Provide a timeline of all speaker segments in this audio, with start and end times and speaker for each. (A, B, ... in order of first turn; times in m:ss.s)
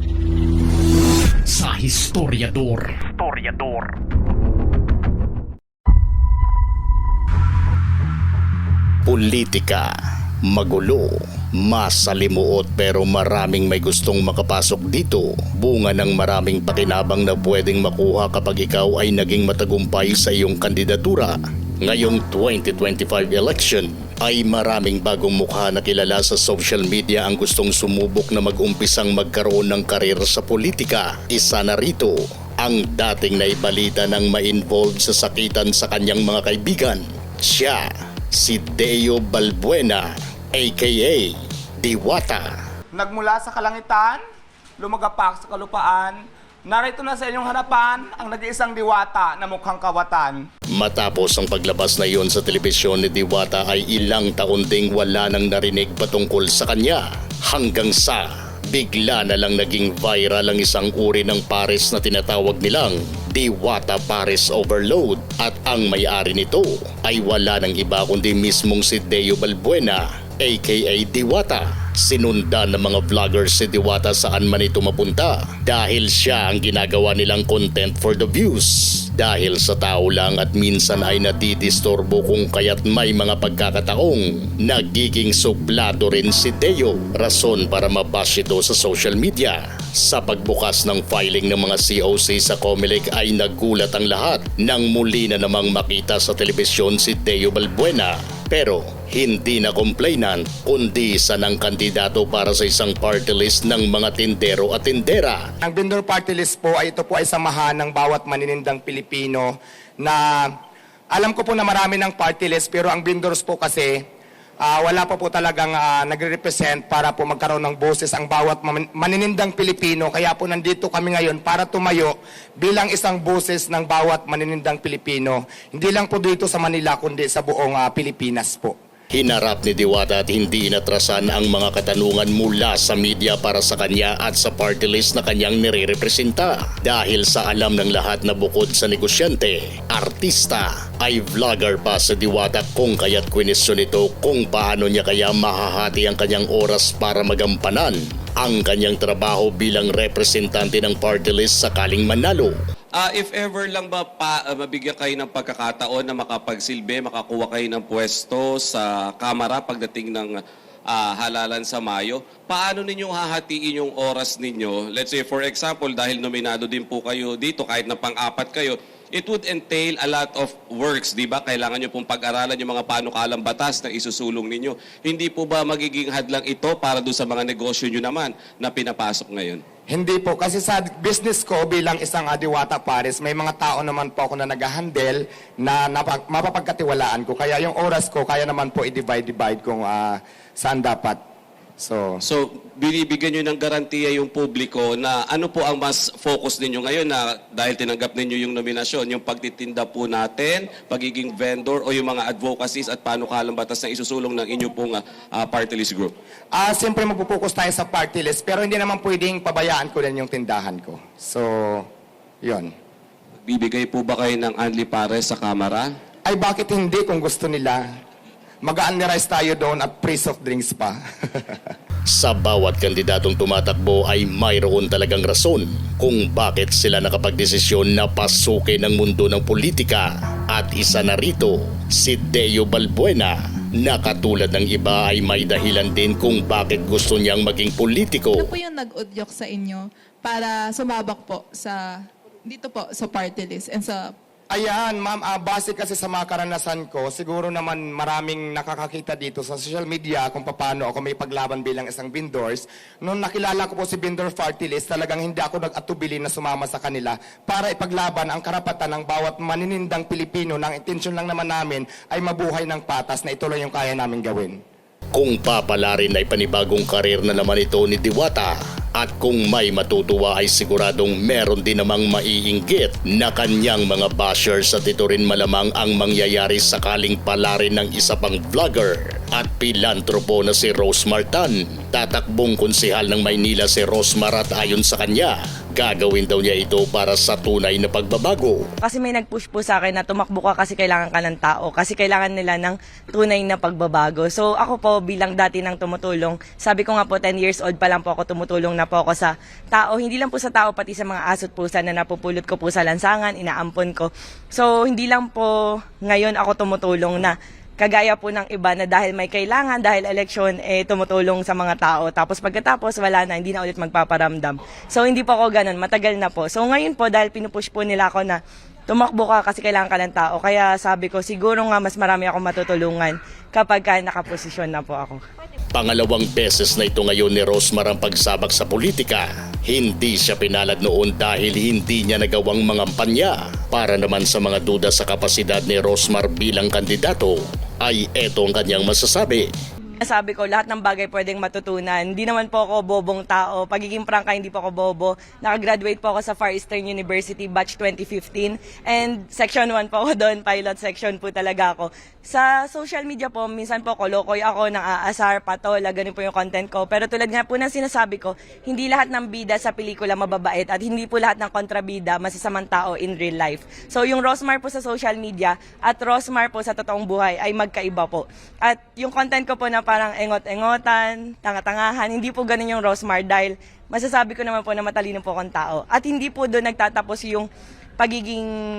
0:01.5-0:03.9 A
0:09.1-0:09.9 A
0:10.4-0:42.5 A
0:42.9-0:44.2 B
0:44.8-0:50.5 B
0:50.7-1:45.5 A
1:45.6-1:50.5 B
1:51.1-1:54.0 B
1:54.6-2:08.8 B
2:09.1-2:32.6 A
2:33.0-2:40.4 C
2:40.9-2:59.6 C
2:59.9-3:11.2 B
3:11.8-3:12.2 B
3:12.2-3:26.1 C
3:26.5-3:31.9 B
3:32.4-3:32.7 B
3:33.4-3:35.9 C
3:36.2-3:37.8 B
3:38.6-3:41.7 B
3:42.1-3:58.5 A
3:58.4-4:04.2 D
4:04.5-4:24.6 B
4:25.1-4:48.7 A
4:48.8-5:25.2 E
5:25.7-5:39.5 A
5:40.0-6:17.5 E
6:18.0-6:18.5 E